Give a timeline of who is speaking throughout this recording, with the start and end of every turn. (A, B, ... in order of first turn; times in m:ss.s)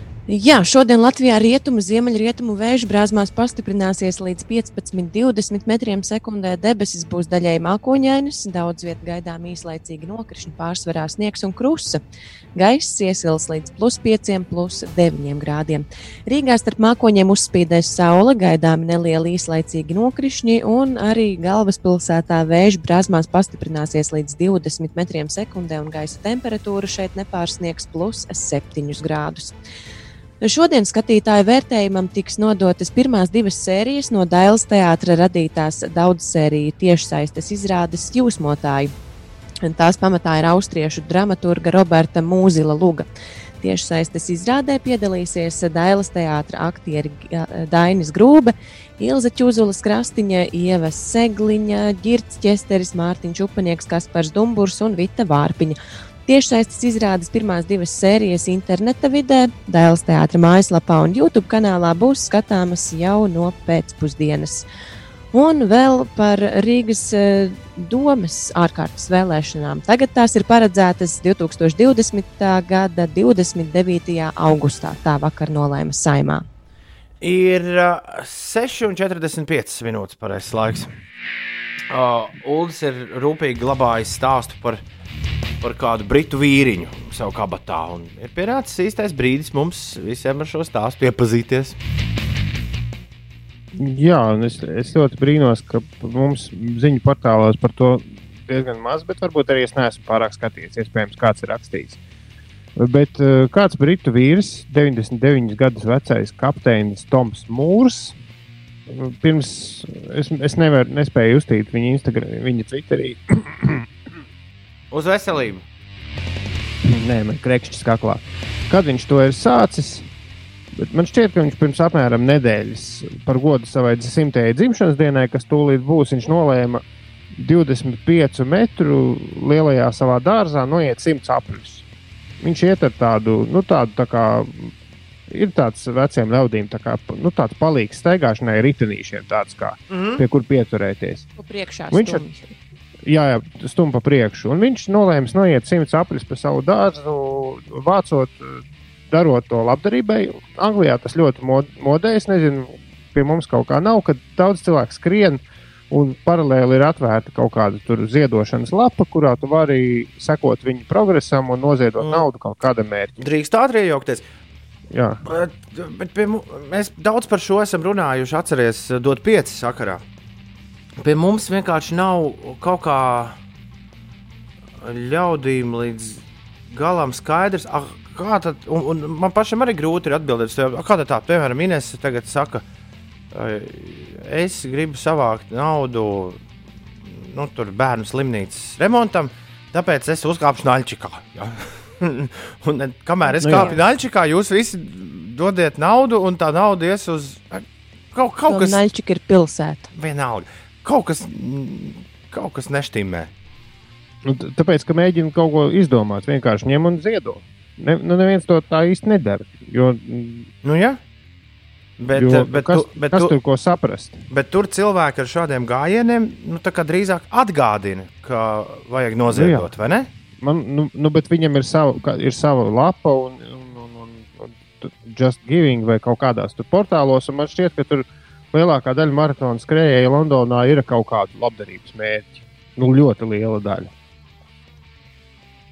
0:00.3-0:12.0 A
0:12.6-0:29.5 A
0:30.4-0:38.9 A
0:39.6-0:43.1 A
0:43.6-1:04.6 A
1:05.3-1:16.4 A
1:17.2-1:20.9 B
1:21.9-1:24.8 B
1:25.6-1:31.8 B
1:33.8-1:42.0 C
1:42.8-1:48.2 C
1:48.9-1:53.8 C
1:54.9-1:55.6 B
1:56.9-2:00.1 C
2:00.8-2:06.8 C
2:07.4-2:11.8 C
2:12.4-2:14.7 C
2:15.3-2:21.3 C
2:19.9-2:20.2 B
2:21.4-2:22.4 A
2:21.9-2:22.2 C
2:23.1-2:43.1 C
2:42.0-2:42.3 B
2:43.2-2:44.2 B
2:44.9-2:45.2 C
2:45.2-2:50.0 B
2:51.0-2:53.4 B
2:54.8-3:02.6 B
3:03.3-3:06.4 B
3:07.0-3:18.8 B
3:13.4-3:13.7 C
3:13.4-3:13.8 A
3:18.5-3:19.9 A
3:19.9-3:23.3 B
3:24.2-3:30.5 C
3:30.6-3:31.0 B
3:32.0-3:33.4 B
3:32.1-3:34.2 C
3:34.3-3:40.1 B
3:39.3-3:39.7 C
3:40.4-3:53.9 C